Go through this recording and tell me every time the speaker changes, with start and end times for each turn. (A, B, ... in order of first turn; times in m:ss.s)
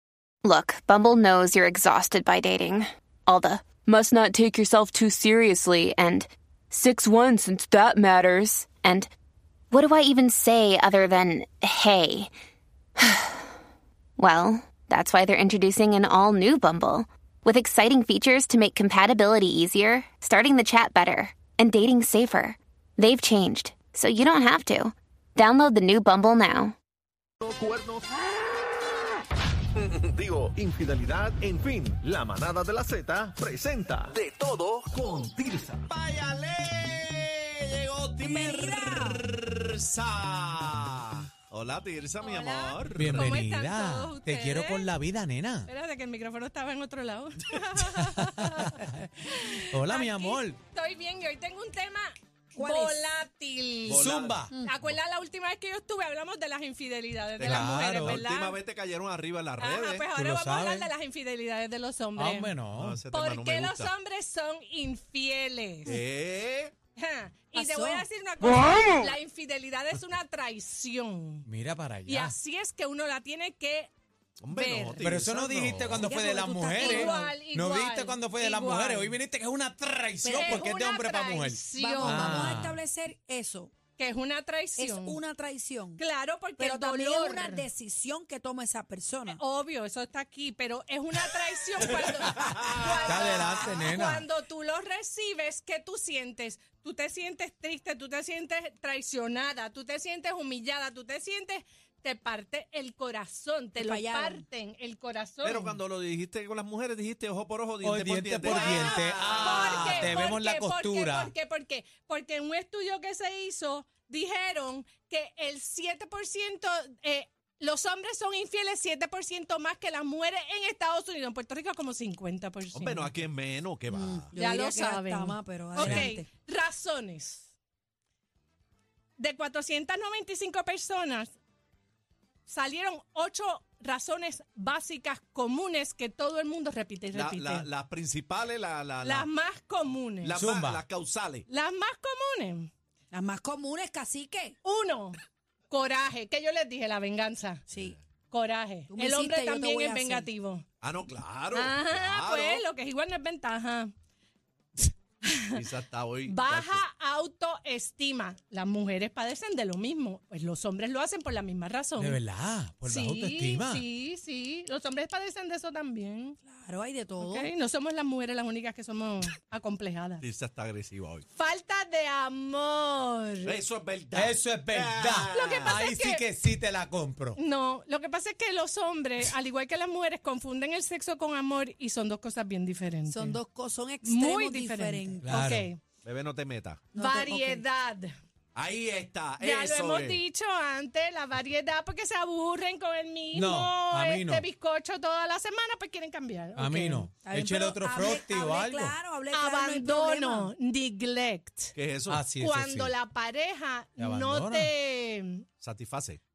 0:00.4-0:09.1 A
0:09.7-0:12.3 A
0:13.0-0:13.3 A
0:14.2-0:26.7 A
0:27.4-0:28.0 B
0:29.8-0:34.5 B
0:33.9-0:34.2 C
0:35.8-0:43.2 C
0:38.2-0:39.2 D
0:38.4-0:39.0 B
0:42.2-0:44.9 D
0:42.9-0:45.7 E
0:45.6-0:54.1 D
0:48.2-0:49.0 E
0:49.7-0:50.6 E
0:52.5-0:53.0 F
0:53.9-0:54.3 C
0:53.9-0:54.5 E
0:54.6-0:58.6 D
0:57.4-0:57.7 C
0:57.4-0:58.2 E
0:58.4-1:00.0 C
0:59.6-1:02.5 D
1:00.1-1:00.9 E
1:02.2-1:03.1 E
1:03.1-1:06.0 D
1:03.2-1:03.8 C
1:05.9-1:06.7 C
1:07.0-1:11.5 D
1:07.6-1:08.1 F
1:11.4-1:12.4 E
1:12.1-1:13.9 D
1:14.4-1:16.0 C
1:14.5-1:15.1 D
1:15.0-1:22.8 E
1:16.0-1:17.4 F
1:16.8-1:19.2 D
1:20.2-1:20.6 F
1:20.4-1:22.6 D
1:21.7-1:23.7 F
1:24.0-1:25.2 D
1:24.8-1:26.0 F
1:26.0-1:27.7 D
1:26.6-1:29.4 F
1:29.2-1:45.8 D
1:32.4-1:33.3 C
1:33.0-1:34.3 E
1:43.8-1:44.4 F
1:45.4-1:49.9 C
1:47.8-1:51.3 E
1:48.4-2:03.1 D
2:02.7-2:04.3 C
2:03.9-2:06.3 F
2:04.3-2:07.5 D
2:09.2-2:11.3 D
2:12.4-2:17.7 D
2:17.1-2:19.2 C
2:19.0-2:20.4 D
2:20.3-2:21.4 C
2:20.3-2:20.9 E
2:21.5-2:22.7 D
2:23.1-2:24.6 F
2:24.6-2:25.2 D
2:25.7-2:27.6 D
2:27.7-2:28.0 F
2:28.3-2:30.6 D
2:28.9-2:30.2 F
2:30.8-2:32.6 C
2:31.5-2:33.9 D
2:35.2-2:35.6 D
2:35.9-2:36.8 C
2:36.2-2:42.2 D
2:42.0-2:43.8 E
2:42.8-2:46.4 D
2:46.4-2:47.5 F
2:47.2-2:50.2 D
2:50.3-2:51.2 C
2:51.3-2:53.6 D
2:53.5-2:55.6 C
2:54.1-2:57.4 E
2:55.3-2:56.2 D
2:57.4-3:03.4 D
3:03.1-3:05.2 F
3:04.0-3:05.8 D
3:05.2-3:05.7 E
3:06.0-3:06.8 C
3:06.9-3:07.6 F
3:06.9-3:08.1 D
3:08.5-3:10.2 C
3:09.4-3:17.1 D
3:13.3-3:14.4 E
3:16.6-3:19.0 E
3:17.2-3:20.5 F
3:19.3-3:21.8 D
3:21.8-3:22.2 C
3:22.0-3:22.9 E
3:22.3-3:25.4 D
3:24.0-3:24.7 E
3:25.6-3:26.2 C